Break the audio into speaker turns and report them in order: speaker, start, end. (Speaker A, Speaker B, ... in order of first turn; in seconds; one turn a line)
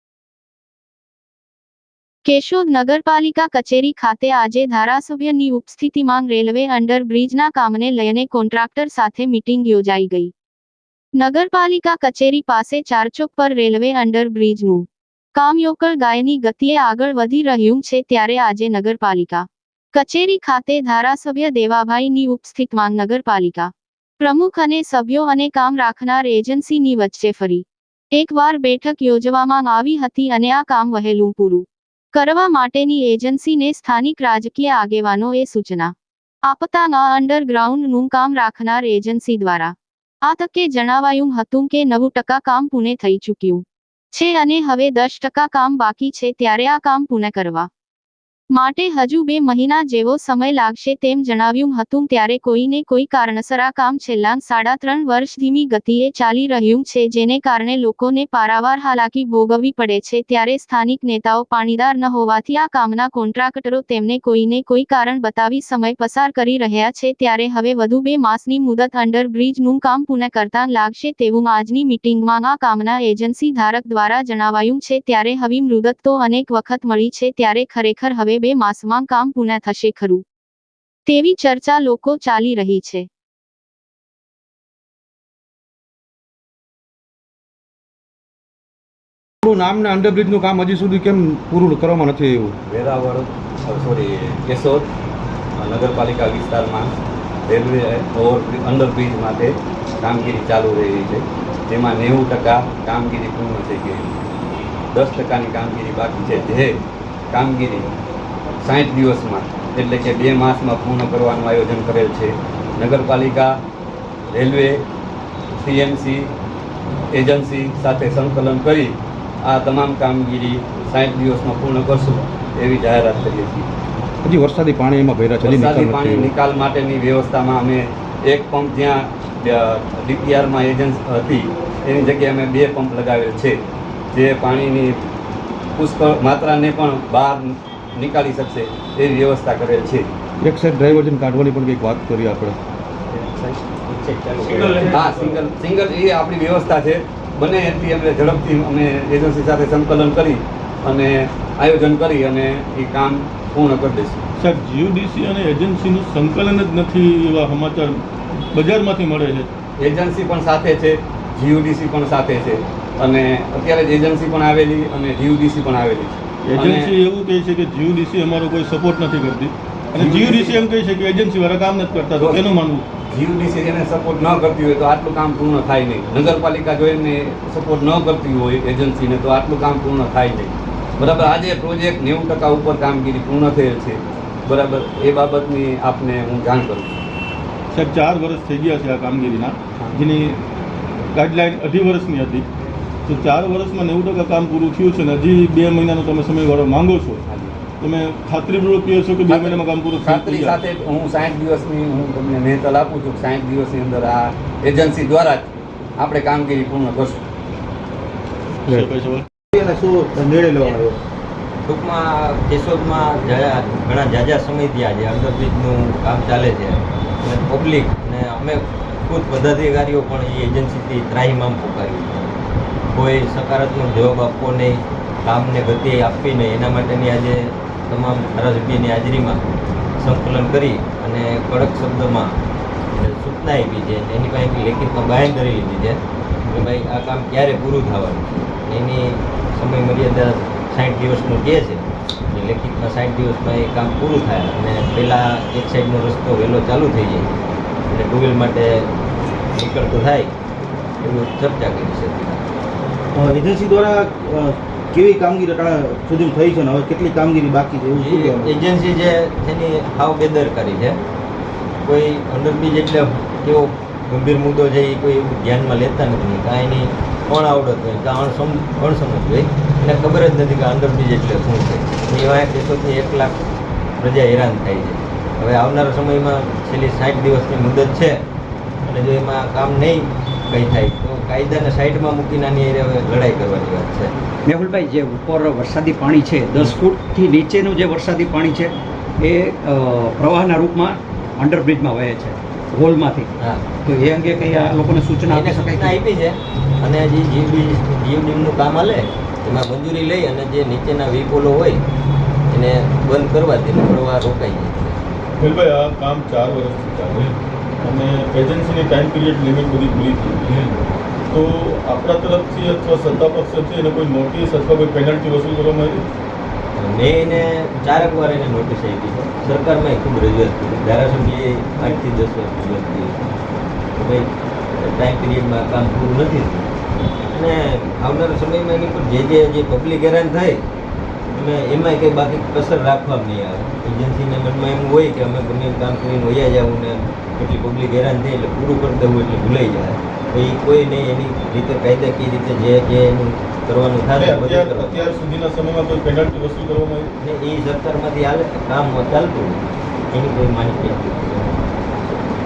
Speaker A: 2.2-10.3
Speaker A: 11.2-35.9
Speaker A: 36.5-47.7
Speaker A: 48.5-80.2
Speaker A: 81.0-83.0
Speaker B: 89.4-92.5
Speaker C: 92.7-94.9
Speaker C: 95.6-96.9
Speaker C: 97.5-104.2
Speaker C: 104.9-106.8
Speaker C: 107.3-107.9
Speaker C: 108.6-113.5
Speaker C: 114.3-114.8
Speaker C: 115.6-116.3
Speaker C: 117.1-123.7
Speaker B: 124.2-126.3
Speaker C: 125.4-133.6
Speaker C: 134.1-134.9
Speaker C: 135.8-140.0
Speaker B: 140.4-142.6
Speaker D: 143.3-145.4
Speaker C: 144.4-154.2
Speaker E: 154.4-158.0
Speaker E: 158.5-159.5
Speaker C: 159.8-166.9
Speaker E: 166.4-172.8
Speaker C: 169.9-170.6
Speaker C: 172.2-172.4
Speaker C: 173.1-186.9
Speaker E: 187.7-190.4
Speaker C: 189.8-190.0
Speaker E: 191.1-192.4
Speaker E: 193.1-197.2
Speaker C: 197.3-197.5
Speaker E: 197.8-200.6
Speaker C: 199.2-207.2
Speaker E: 208.7-209.2
Speaker F: 209.5-211.0
Speaker D: 211.7-222.3
Speaker D: 222.9-229.4
Speaker D: 230.0-232.4
Speaker D: 232.9-247.3
Speaker D: 247.9-248.9
Speaker D: 249.5-250.3
Speaker D: 251.0-252.4
Speaker F: 253.1-258.6
Speaker D: 257.9-261.0
Speaker D: 261.8-273.4
Speaker D: 274.0-278.2
Speaker D: 278.9-284.1
Speaker G: 284.4-293.3
Speaker G: 293.8-295.9
Speaker D: 295.3-301.8
Speaker D: 302.5-305.1
Speaker E: 305.4-316.1
Speaker D: 316.8-323.3
Speaker D: 323.9-326.7
Speaker D: 327.3-330.6
Speaker D: 331.3-345.1
Speaker E: 344.1-347.1
Speaker D: 347.2-349.6
Speaker D: 350.1-351.6